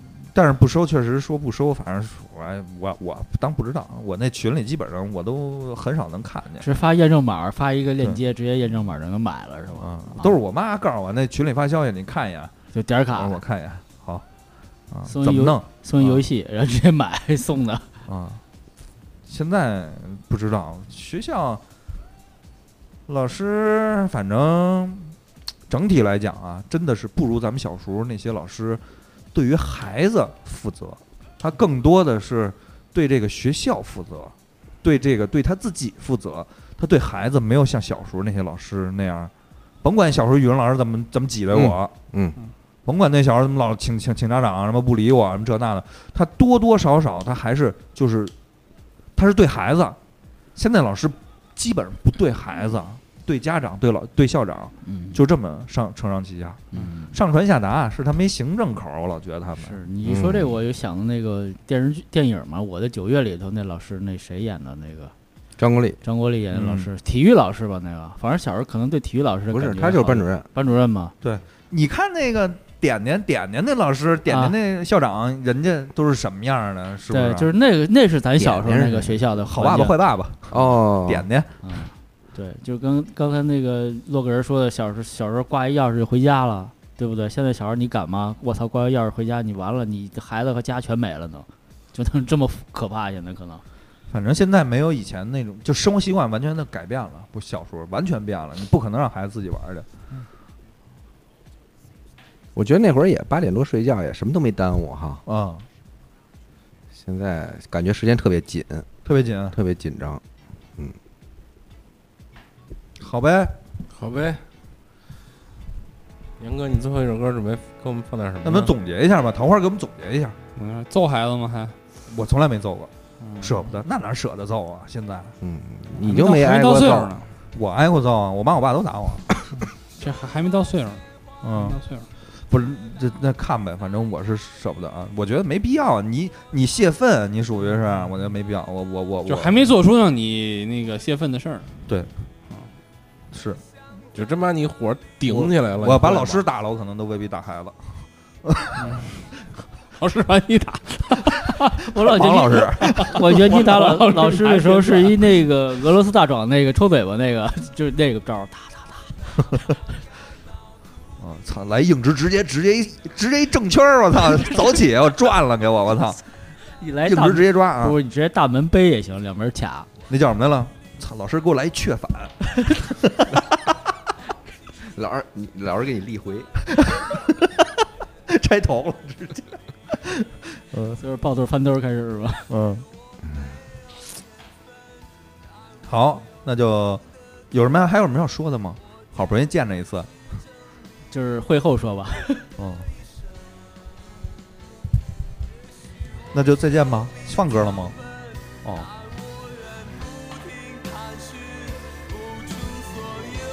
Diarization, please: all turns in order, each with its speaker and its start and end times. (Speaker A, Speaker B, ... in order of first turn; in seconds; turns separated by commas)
Speaker A: 0.2-6.7, Speaker B: 6.6-10.4, Speaker A: 9.8-12.5, Speaker B: 12.7-13.4, Speaker A: 13.2-14.2, Speaker A: 14.9-16.2, Speaker B: 15.1-17.9, Speaker A: 18.1-18.4, Speaker A: 19.3-21.6, Speaker A: 23.1-25.2, Speaker A: 25.7-28.8, Speaker A: 29.3-39.3, Speaker A: 39.8-41.9, Speaker C: 41.5-42.4, Speaker A: 42.9-48.3, Speaker A: 49.2-50.0, Speaker A: 50.6-59.8, Speaker B: 54.8-55.2, Speaker B: 56.7-57.1, Speaker B: 59.6-65.1, Speaker C: 60.0-60.5, Speaker C: 65.6-66.0, Speaker B: 66.0-71.1, Speaker A: 66.5-66.9, Speaker C: 69.5-70.5, Speaker A: 71.2-77.5, Speaker B: 74.3-74.5, Speaker B: 77.1-80.0, Speaker C: 78.4-79.2, Speaker A: 79.5-81.5, Speaker C: 80.5-81.3, Speaker B: 81.6-93.6, Speaker A: 94.1-99.9, Speaker C: 102.5-105.2, Speaker A: 105.3-105.7, Speaker C: 106.9-108.9, Speaker A: 109.0-109.6, Speaker C: 109.5-110.2, Speaker A: 113.0-113.6, Speaker D: 113.9-114.4, Speaker D: 116.4-118.7, Speaker A: 118.4-120.4, Speaker E: 120.6-121.8, Speaker A: 122.1-125.3, Speaker E: 123.2-123.6, Speaker C: 125.4-127.1, Speaker E: 126.0-127.3, Speaker A: 127.5-129.3, Speaker E: 130.0-132.1, Speaker A: 131.4-131.8, Speaker A: 132.5-139.7, Speaker E: 139.3-141.7, Speaker A: 143.3-143.6, Speaker D: 144.1-146.4, Speaker A: 145.3-147.8, Speaker A: 148.4-149.0, Speaker E: 148.8-149.1, Speaker E: 150.0-151.8, Speaker B: 151.8-159.7, Speaker A: 152.1-153.2, Speaker E: 153.0-155.2, Speaker A: 161.2-166.2, Speaker B: 166.8-169.9, Speaker A: 167.1-168.0, Speaker A: 170.1-173.4, Speaker C: 174.9-176.5, Speaker A: 176.7-177.5, Speaker A: 178.3-181.0, Speaker B: 181.0-182.5, Speaker A: 182.5-182.9, Speaker A: 185.9-190.1, Speaker B: 191.1-192.4, Speaker A: 192.6-192.9, Speaker A: 196.3-198.0, Speaker A: 198.6-198.9